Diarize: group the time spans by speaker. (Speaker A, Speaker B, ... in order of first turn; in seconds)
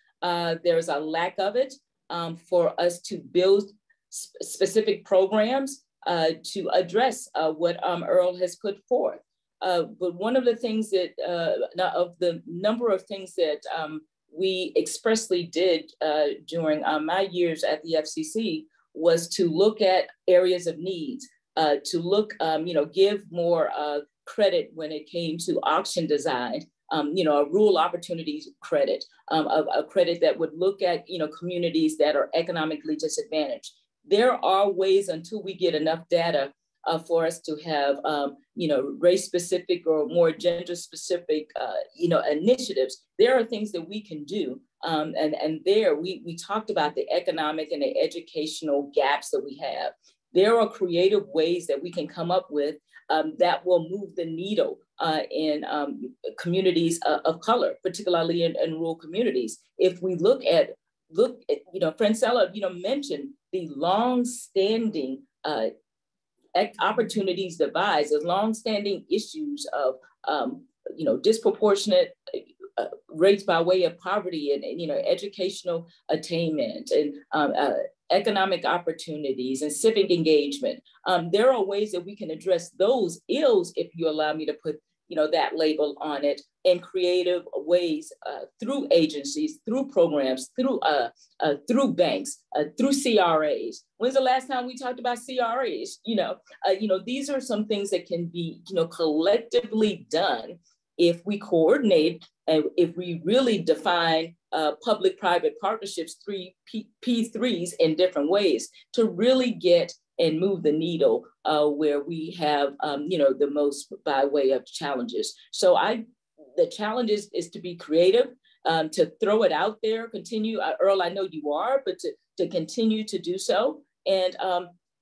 Speaker A: 0.2-65.7, 66.5-116.0, 116.6-124.7